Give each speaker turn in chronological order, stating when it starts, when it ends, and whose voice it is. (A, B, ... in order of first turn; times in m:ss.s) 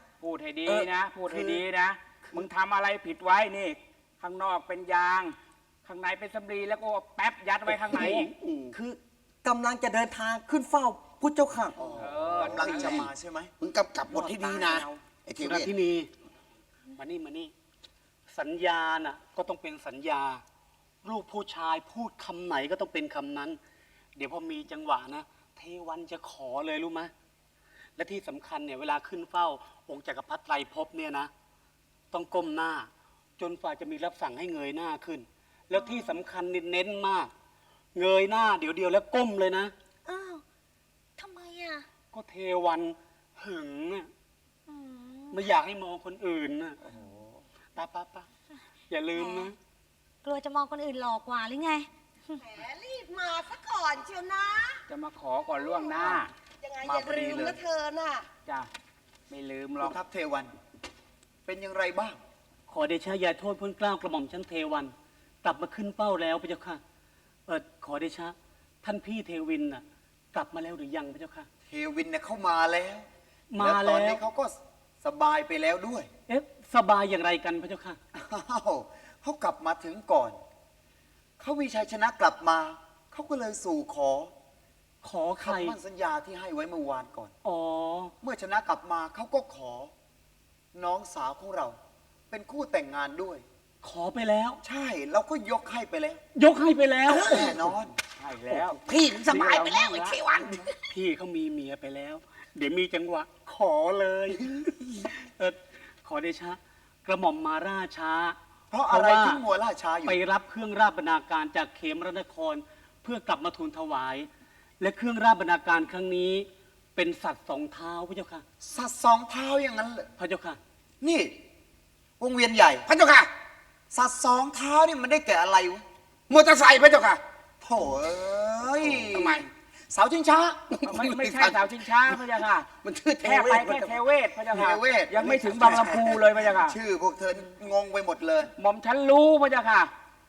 0:00.2-0:08.3 A
0:00.6-0:01.6 B
0:07.7-0:11.8 B
0:11.8-0:13.5 C
0:11.9-0:13.1 A
0:12.4-0:13.1 D
0:13.6-0:15.7 D
0:14.1-0:14.8 B
0:15.4-0:16.1 E
0:16.9-0:17.5 E
0:18.3-0:20.4 E
0:21.0-0:23.6 E
0:24.2-0:27.1 E
0:28.0-0:31.3 E
0:32.1-0:37.3 E
0:35.7-0:36.1 F
0:37.9-0:39.7 E
0:40.0-0:40.4 F
0:41.2-0:41.8 F
0:42.1-0:44.1 E
0:44.7-0:45.4 F
0:45.3-0:46.8 E
0:47.8-0:48.3 E
0:48.9-0:49.5 E
0:49.1-0:49.5 F
0:50.2-0:52.4 F
0:52.4-0:54.7 G
0:54.9-0:56.3 A
0:55.6-0:58.2 G
0:56.8-0:57.6 A
0:59.3-1:00.0 A
0:59.8-1:00.5 C
1:01.4-1:02.2 C
1:02.7-1:06.8 E
1:07.5-1:11.5 E
1:11.7-1:13.1 C
1:13.5-1:14.2 E
1:13.6-1:16.1 C
1:16.3-1:18.0 E
1:18.1-1:20.4 C
1:21.4-1:24.3 C
1:25.0-1:25.8 E
1:25.4-1:27.3 C
1:27.4-1:28.1 E
1:28.2-1:29.9 C
1:30.7-1:31.8 C
1:32.3-1:33.4 C
1:33.8-1:34.6 E
1:34.6-1:36.2 C
1:36.4-1:37.6 E
1:37.1-1:37.6 D
1:37.2-1:37.9 C
1:38.2-1:40.2 A
1:38.5-1:38.8 E
1:38.8-1:40.7 D
1:40.9-1:44.5 E
1:45.0-1:48.4 E
1:48.7-1:50.2 C
1:48.9-1:49.4 E
1:50.0-1:54.3 E
1:54.8-1:58.4 E
1:58.6-2:00.1 C
2:00.2-2:00.6 E
2:01.0-2:01.3 C
2:02.2-2:02.8 C
2:02.9-2:03.3 D
2:03.9-2:05.8 C
2:06.3-2:07.2 D
2:07.6-2:10.8 C
2:08.7-2:09.5 D
2:10.7-2:12.2 D
2:10.8-2:12.7 A
2:12.8-2:14.0 D
2:13.2-2:16.8 A
2:14.5-2:18.5 C
2:15.5-2:16.0 D
2:18.6-2:19.9 A